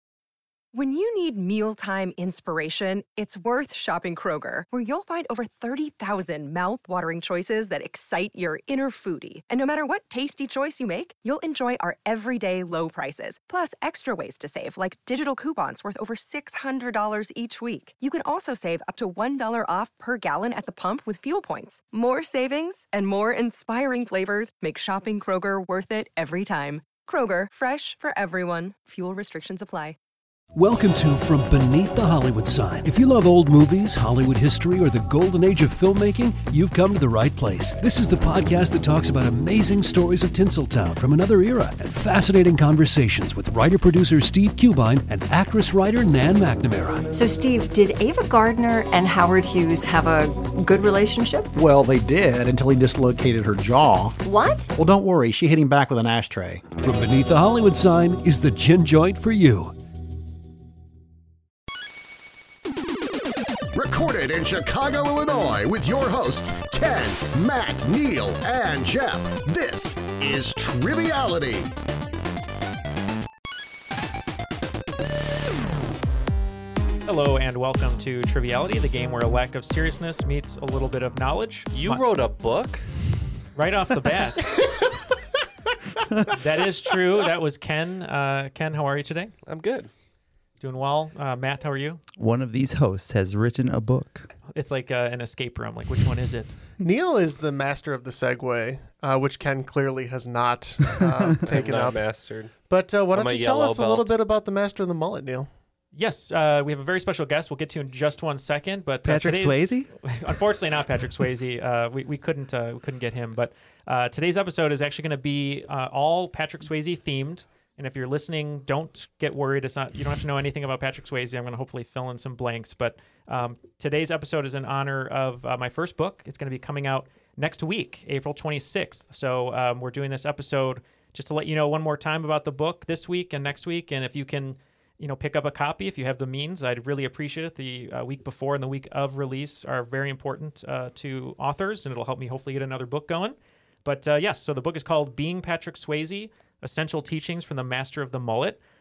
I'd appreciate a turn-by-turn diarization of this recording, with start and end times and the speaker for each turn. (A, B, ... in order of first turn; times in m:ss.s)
0:00.7-0:30.0 A
0:30.6-0:47.1 B
0:47.1-0:51.5 C
0:51.5-0:56.6 D
0:54.3-0:54.6 C
0:56.8-0:59.8 B
1:03.7-1:11.7 E
1:17.1-1:22.0 F
1:21.7-1:22.8 G
1:23.6-1:24.6 F
1:26.3-1:29.3 F
1:29.5-1:29.9 G
1:30.6-1:32.0 F
1:32.2-1:34.3 H
1:34.5-1:36.6 F
1:36.8-1:42.1 I
1:41.5-1:42.6 G
1:42.7-1:45.5 I
1:43.1-1:44.2 G
1:45.9-2:28.6 F
1:49.0-1:49.9 H